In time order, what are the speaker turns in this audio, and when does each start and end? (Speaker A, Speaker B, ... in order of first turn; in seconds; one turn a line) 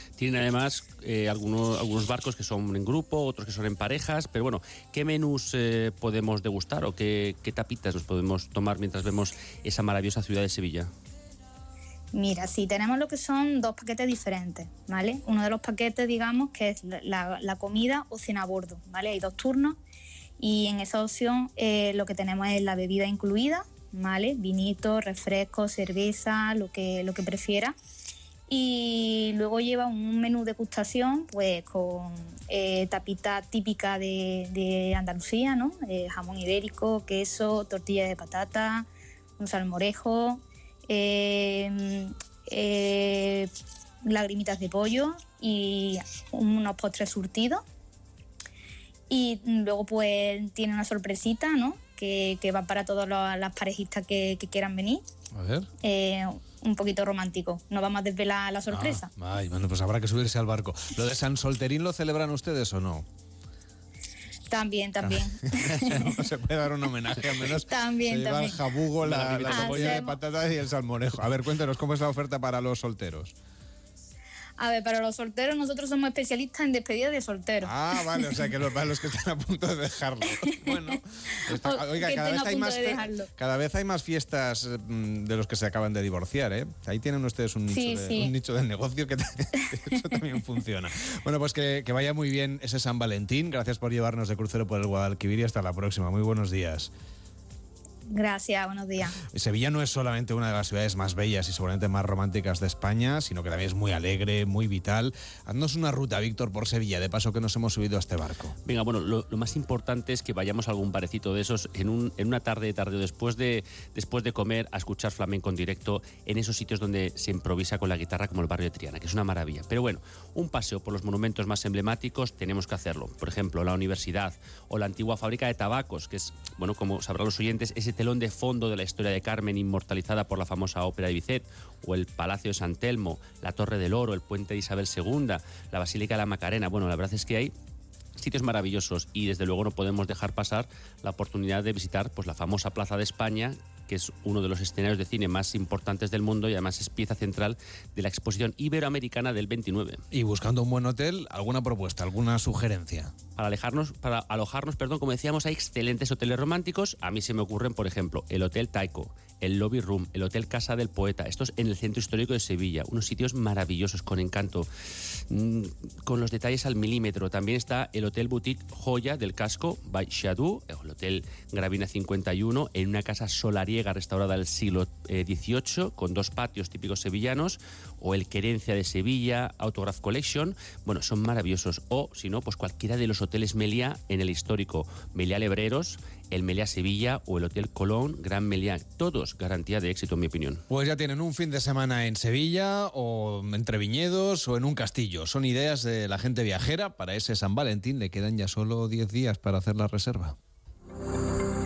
Speaker A: 0.2-10.9
Speaker B: 12.1-19.8
Speaker B: 20.4-27.7
Speaker B: 28.5-38.9
Speaker B: 39.4-43.5
Speaker B: 44.0-47.6
Speaker B: 49.1-55.0
Speaker C: 55.3-55.7
Speaker B: 55.8-59.1
Speaker C: 58.7-63.0
Speaker B: 64.5-66.2
Speaker C: 65.0-73.3
Speaker B: 67.5-68.6
Speaker A: 69.0-70.0
Speaker B: 69.5-70.2
Speaker B: 74.6-78.5
Speaker C: 77.6-96.9
Speaker B: 80.5-81.0
Speaker B: 81.6-83.3
Speaker B: 87.7-88.3
Speaker B: 98.1-99.2
Speaker C: 99.3-108.5
Speaker A: 108.7-137.5
Speaker A: 138.2-150.0
Speaker C: 150.1-153.1
Speaker A: 153.4-164.7
Speaker A: 165.3-190.6
Speaker C: 190.7-200.4